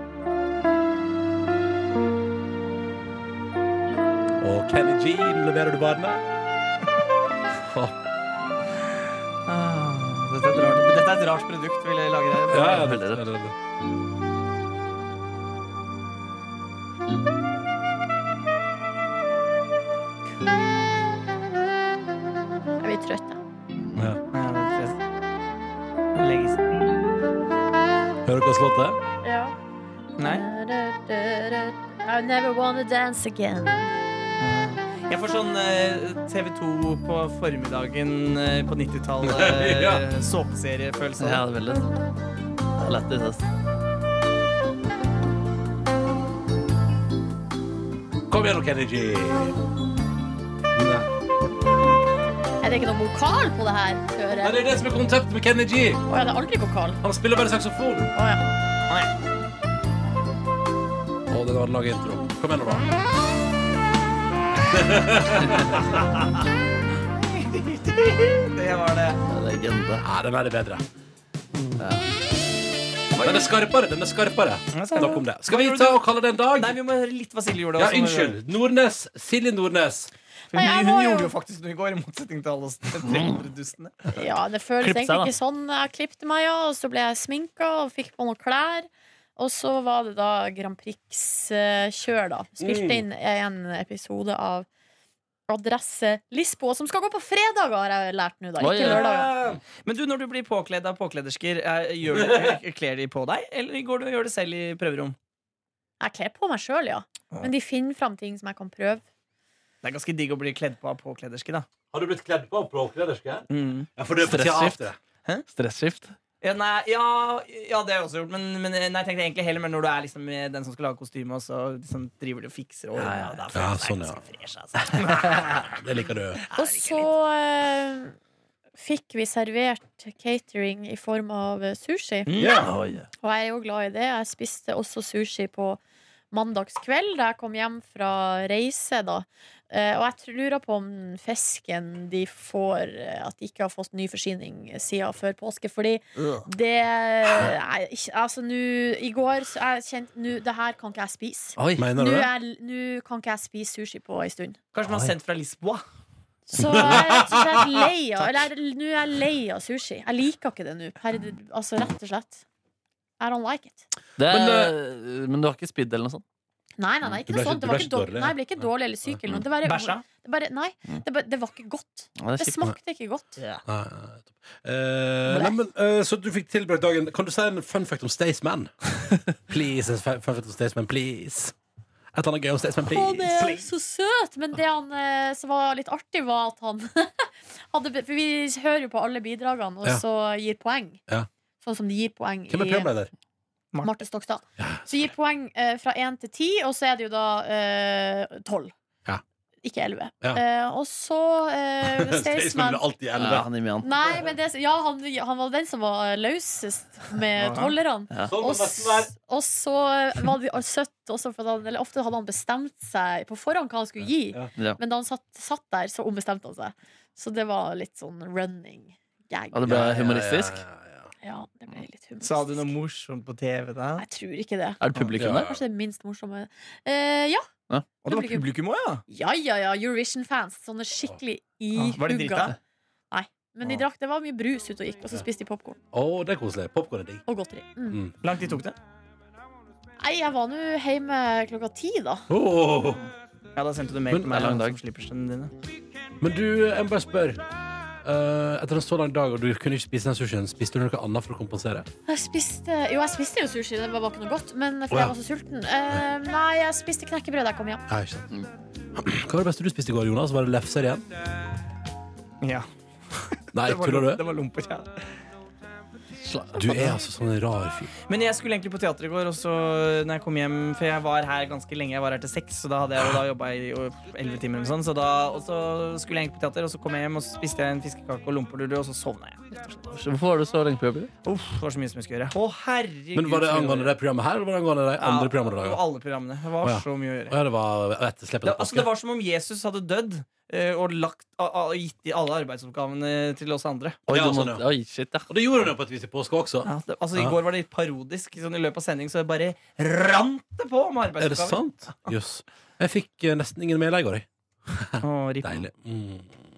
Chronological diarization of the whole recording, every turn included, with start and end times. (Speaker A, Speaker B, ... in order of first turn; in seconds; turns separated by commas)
Speaker A: 4.4-6.2, Speaker A: 7.5-7.9, Speaker B: 9.5-12.9, Speaker A: 12.5-13.6, Speaker C: 12.7-13.2, Speaker D: 22.8-23.4, Speaker A: 23.9-24.2, Speaker B: 24.3-25.0, Speaker B: 26.1-26.7, Speaker A: 28.2-29.0, Speaker D: 29.2-29.6, Speaker D: 30.2-33.9, Speaker B: 30.2-30.4, Speaker B: 34.4-41.4, Speaker A: 39.2-40.0, Speaker C: 41.2-41.9, Speaker C: 42.8-43.5, Speaker A: 48.3-49.6, Speaker A: 50.7-51.1, Speaker D: 52.6-54.7, Speaker A: 54.4-56.0, Speaker D: 56.1-57.0, Speaker A: 57.0-58.1, Speaker D: 58.1-58.4, Speaker A: 61.3-62.9, Speaker A: 64.7-65.9, Speaker B: 67.2-69.2, Speaker C: 69.3-70.0, Speaker A: 70.0-70.8, Speaker C: 71.8-72.0, Speaker B: 73.1-73.5, Speaker A: 73.2-76.8, Speaker B: 74.7-76.0, Speaker B: 76.5-78.3, Speaker A: 77.8-80.1, Speaker B: 80.5-83.9, Speaker D: 80.5-81.3, Speaker C: 83.1-83.4, Speaker D: 84.1-94.7, Speaker C: 84.8-85.3, Speaker A: 92.6-93.0, Speaker D: 95.5-99.3, Speaker C: 98.6-99.1, Speaker A: 98.8-99.6, Speaker B: 99.8-105.2, Speaker A: 102.1-102.6, Speaker D: 106.0-109.0, Speaker B: 109.8-111.7, Speaker A: 111.9-115.0, Speaker B: 113.5-113.9, Speaker C: 114.2-114.8, Speaker C: 115.5-116.1, Speaker B: 116.4-125.7, Speaker C: 123.0-123.4, Speaker A: 123.5-124.2, Speaker A: 125.3-126.4, Speaker B: 126.5-127.1, Speaker D: 126.5-128.2, Speaker D: 128.8-132.3, Speaker B: 132.3-132.7, Speaker A: 132.4-132.7, Speaker C: 132.6-133.1, Speaker D: 133.2-135.8, Speaker D: 136.3-154.6, Speaker B: 146.2-146.4, Speaker C: 151.6-151.9, Speaker A: 151.8-152.3, Speaker B: 154.7-155.8, Speaker D: 156.5-162.4, Speaker A: 156.5-157.8, Speaker D: 163.2-163.9, Speaker C: 164.2-166.2, Speaker A: 164.2-164.7, Speaker D: 166.8-173.4, Speaker A: 167.3-168.4, Speaker B: 169.6-170.0, Speaker C: 172.2-172.6, Speaker A: 173.7-181.6, Speaker D: 175.3-175.6, Speaker A: 182.1-183.6, Speaker D: 182.8-191.0, Speaker B: 183.3-183.7, Speaker D: 191.6-192.9, Speaker A: 192.5-193.1, Speaker D: 193.8-198.7, Speaker A: 194.6-194.8, Speaker D: 199.6-202.8, Speaker A: 201.8-203.5, Speaker C: 203.2-203.9, Speaker D: 203.8-219.8, Speaker B: 207.4-207.7, Speaker A: 208.3-209.1, Speaker C: 219.5-220.6, Speaker A: 219.7-221.1, Speaker D: 221.2-222.7, Speaker B: 222.2-224.0, Speaker D: 224.0-227.5, Speaker C: 224.8-225.6, Speaker A: 225.2-225.6, Speaker D: 228.0-228.5, Speaker B: 228.1-229.0, Speaker D: 229.1-232.6, Speaker B: 231.8-232.6, Speaker D: 233.1-235.8, Speaker A: 235.9-237.2, Speaker D: 237.3-238.0, Speaker A: 237.9-238.2, Speaker B: 238.2-238.8, Speaker D: 240.0-242.3, Speaker A: 242.3-243.0, Speaker B: 243.6-245.5, Speaker A: 244.1-244.4, Speaker C: 244.2-244.8, Speaker A: 246.2-247.4, Speaker A: 248.0-251.9, Speaker D: 252.1-257.9, Speaker A: 257.9-258.3, Speaker A: 258.9-261.1, Speaker B: 262.4-265.0, Speaker A: 263.5-264.3, Speaker C: 266.2-267.0, Speaker A: 266.5-267.9, Speaker B: 268.1-279.9, Speaker C: 279.9-281.1, Speaker B: 281.2-283.9, Speaker A: 283.1-285.8, Speaker B: 285.0-287.4, Speaker A: 286.6-288.9, Speaker B: 288.4-294.0, Speaker C: 294.1-295.3, Speaker A: 294.1-294.7, Speaker A: 295.3-297.4, Speaker B: 296.6-301.6, Speaker A: 301.2-306.3, Speaker B: 305.0-305.6